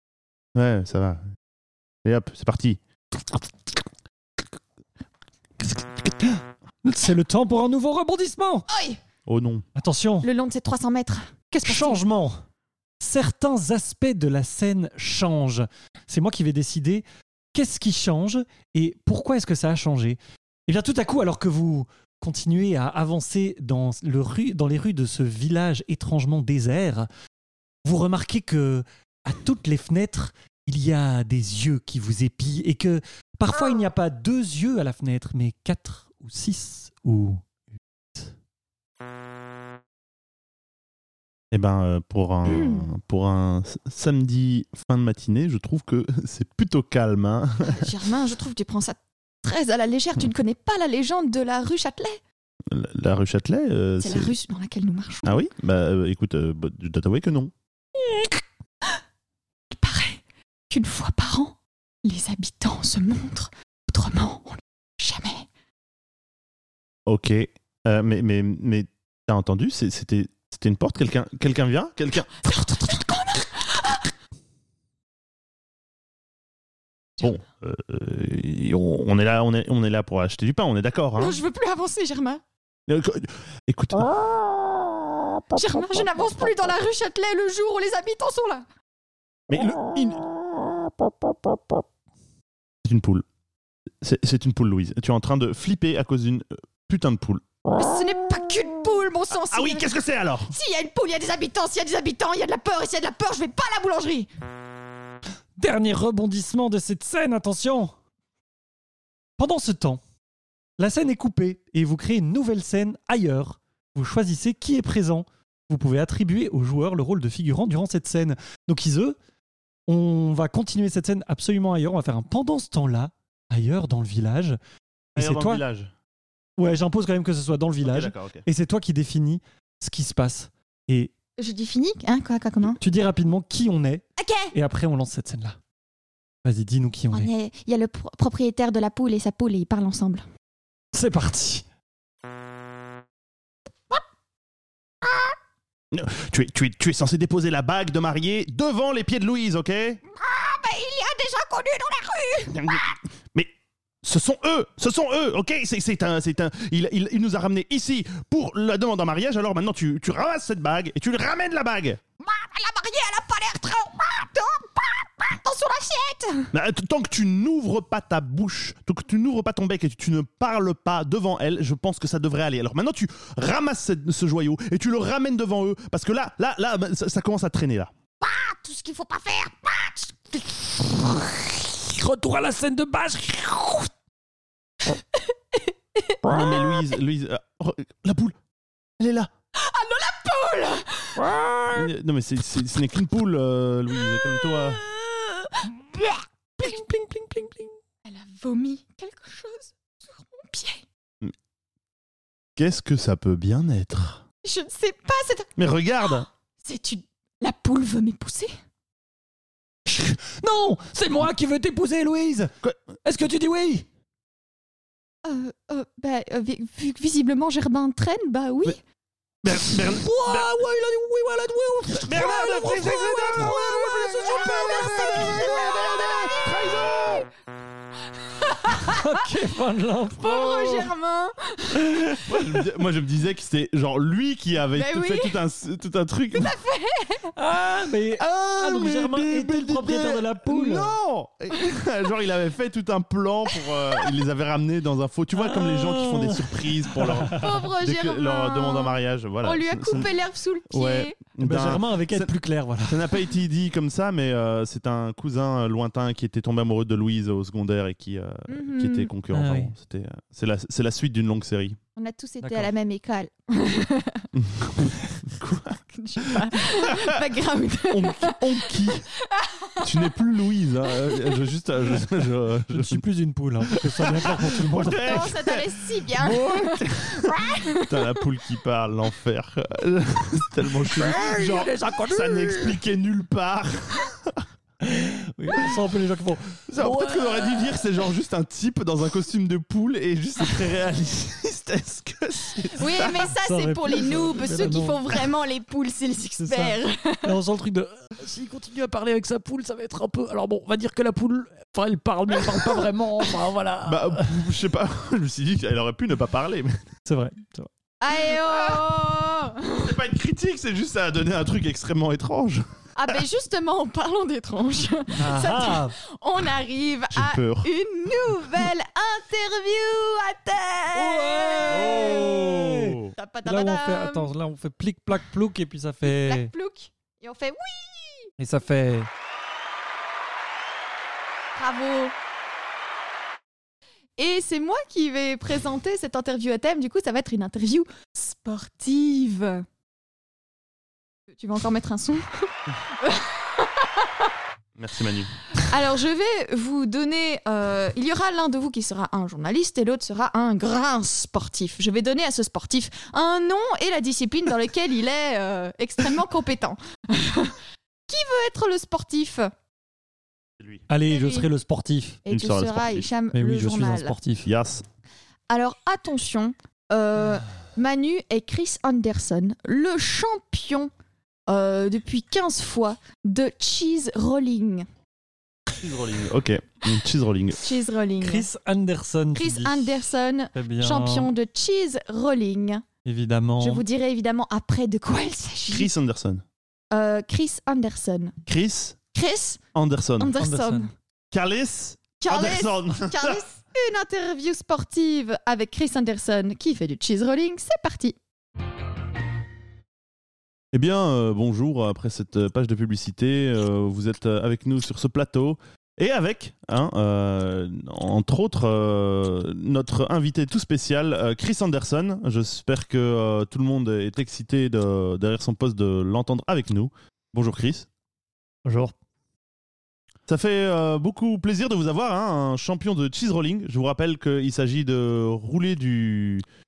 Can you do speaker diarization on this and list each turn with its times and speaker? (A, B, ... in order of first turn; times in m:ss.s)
0:00.5-0:01.2 A
0:02.0-0:02.8 A
0:05.6-0:08.7 B
0:08.7-0:09.0 C
0:09.2-0:09.6 A
0:09.8-0:10.3 B
0:10.2-0:12.0 C
0:11.6-0:12.4 B
0:13.0-0:27.1 B
0:27.8-0:37.4 B
0:41.5-0:47.9 A
0:42.5-0:42.9 C
0:47.6-0:52.2 C
0:52.7-0:54.4 A
0:54.0-0:55.3 C
0:55.2-0:57.5 A
0:58.0-0:58.3 C
0:59.7-1:05.5 C
1:07.0-1:12.5 A
1:12.3-1:14.1 C
1:17.2-1:21.4 A
1:21.2-1:22.4 C
1:22.9-1:24.1 A
1:25.5-1:28.6 C
1:29.5-1:30.2 A
1:32.8-1:33.2 A
1:34.0-1:37.4 A
1:37.7-1:39.9 C
1:39.4-1:40.5 A
1:40.5-1:44.3 C
1:45.6-1:47.9 B
1:49.4-1:50.0 B
1:50.8-1:59.2 B
1:59.9-2:04.6 B
2:05.2-2:05.6 B
2:05.2-2:05.9 A
2:06.6-2:11.1 B
2:07.8-2:08.4 A
2:11.4-2:12.8 C
2:12.8-2:15.6 B
2:14.2-2:14.5 C
2:16.4-2:17.3 B
2:17.1-2:20.2 C
2:20.9-2:21.6 B
2:25.0-2:25.3 C
2:25.9-2:30.0 A
2:30.1-2:33.0 C
2:32.5-2:33.5 A
2:34.0-2:42.0 A
2:42.2-2:46.5 C
2:46.5-2:57.9 A
2:58.2-3:00.7 C
3:00.8-3:03.9 B
3:04.9-3:06.8 C
3:06.2-3:08.4 A
3:09.0-3:09.3 A
3:09.5-3:11.3 C
3:11.2-3:11.8 B
3:11.7-3:14.8 A
3:14.0-3:16.8 C
3:16.6-3:17.7 B
3:18.0-3:20.8 C
3:22.6-3:24.2 A
3:24.4-3:25.5 C
3:25.6-3:26.3 A
3:26.1-3:28.5 C
3:29.9-3:32.5 B
3:33.0-3:33.8 B
3:35.2-3:38.8 C
3:39.4-3:40.5 A
3:39.5-3:45.5 B
3:41.9-3:47.3 A
3:42.1-3:47.2 C
3:48.1-3:49.1 C
3:48.7-3:50.9 B
3:50.2-3:51.9 C
3:51.8-3:52.4 B
3:52.2-3:56.6 A
3:54.7-3:55.4 C
3:56.3-3:57.3 C
3:57.3-4:00.9 B
3:58.2-4:10.1 A
4:03.5-4:04.2 C
4:05.4-4:07.5 B
4:07.3-4:11.2 C
4:10.7-4:12.3 A
4:11.4-4:13.1 B
4:12.8-4:21.8 A
4:18.5-4:19.1 C
4:19.3-4:19.7 B
4:22.0-4:24.3 C
4:22.4-4:22.7 B
4:24.3-4:27.1 A
4:25.9-4:29.9 C
4:27.9-4:29.0 A
4:29.8-4:33.0 A
4:31.1-4:31.4 C
4:32.7-4:35.3 B
4:33.7-4:44.4 A
4:34.9-4:38.2 C
4:40.8-4:42.8 B
4:44.8-4:47.8 B
4:46.7-4:53.3 A
4:52.8-4:57.4 C
4:53.3-4:55.0 B
4:56.4-5:04.4 B
5:03.8-5:06.8 A
5:07.0-5:07.7 B
5:08.0-5:10.0 C
5:08.3-5:08.8 A
5:09.8-5:13.2 A
5:13.0-5:22.4 C
5:15.2-5:16.0 B
5:17.1-5:17.7 A
5:20.9-5:26.5 B
5:21.7-5:23.1 A
5:23.2-5:24.3 C
5:26.0-5:28.3 C
5:28.4-5:29.1 B
5:31.6-5:32.1 C
5:34.2-5:39.6 C
5:41.3-5:44.3 C
5:44.8-5:45.4 A
5:45.5-5:59.5 C
6:00.9-6:02.2 B
6:01.1-6:01.5 C
6:02.2-6:04.2 C
6:02.3-6:03.1 A
6:03.3-6:04.5 B
6:04.4-6:04.8 A
6:05.5-6:10.9 C
6:11.5-6:14.9 C
6:15.7-6:17.6 A
6:17.6-6:18.5 C
6:18.2-6:19.9 B
6:19.3-6:22.8 C
6:20.5-6:21.3 B
6:23.0-6:23.8 B
6:23.6-6:25.9 C
6:25.7-6:26.4 A
6:26.9-6:28.4 C
6:28.4-6:29.0 A
6:29.1-6:29.6 C
6:29.7-6:30.3 A
6:30.2-6:30.9 C
6:30.4-6:30.9 B
6:31.3-6:33.4 A
6:32.2-6:38.2 C
6:40.7-6:57.9 A
6:58.6-6:58.9 B
7:00.3-7:06.4 A